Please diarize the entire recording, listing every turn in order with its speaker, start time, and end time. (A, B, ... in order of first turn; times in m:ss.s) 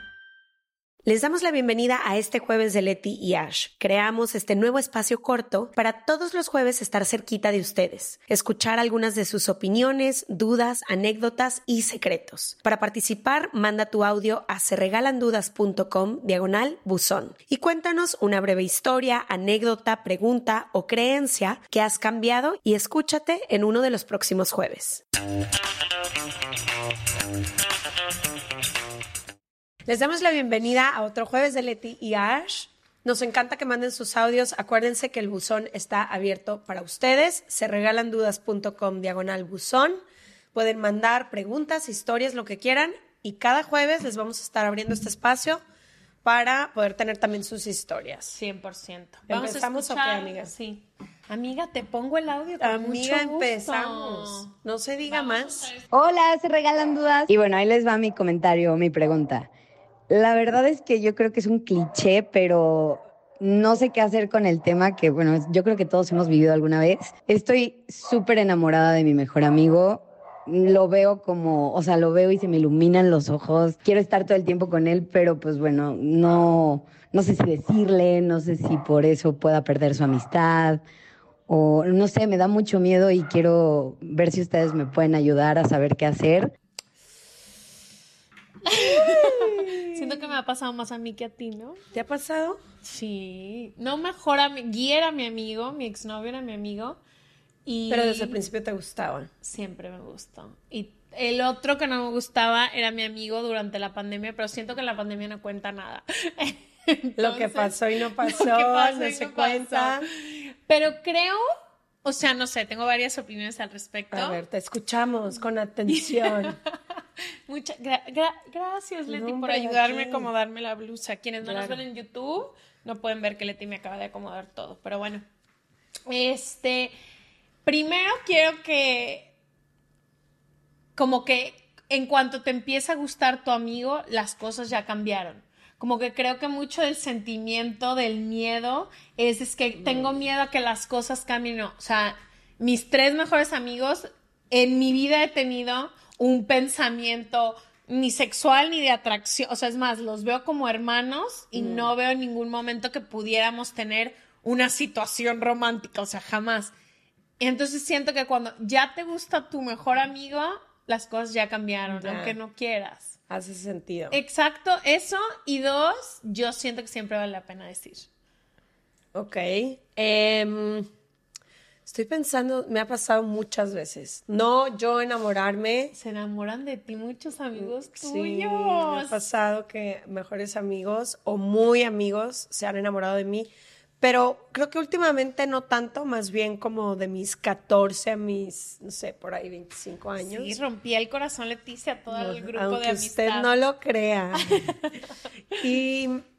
0:01.0-0:25.0 A
0:29.9-0:40.0 A
0:40.5-0:45.6 A
0:46.2-0:48.3 A
0:48.3-0:54.5 B
0:49.3-0:50.5 A
0:52.6-0:55.7 A
0:55.1-0:55.8 B
0:55.9-0:59.5 C
1:00.1-1:20.8 C
1:21.5-1:26.5 C
1:28.7-1:31.8 B
1:29.0-1:29.7 A
1:31.9-1:32.6 A
1:32.8-1:37.0 B
1:37.6-1:38.4 B
1:37.9-1:39.3 A
1:39.4-1:51.4 B
1:47.2-1:50.0 A
1:52.0-1:54.4 B
1:54.1-1:56.6 A
1:55.9-1:56.6 B
1:57.5-2:05.2 B
1:59.1-2:00.3 A
2:01.4-2:01.8 A
2:06.1-2:06.9 B
2:07.6-2:09.3 B
2:11.0-2:36.7 B
2:31.6-2:31.9 A
2:37.4-2:43.2 B
2:41.9-2:42.4 A
2:43.3-2:44.2 A
2:44.1-2:48.1 B
2:49.1-2:50.9 A
2:51.9-2:55.9 A
2:55.9-2:59.2 B
2:57.6-3:03.5 A
3:04.0-3:10.6 A
3:10.2-3:13.6 B
3:12.1-3:14.5 A
3:14.4-3:15.0 B
3:15.6-3:16.2 A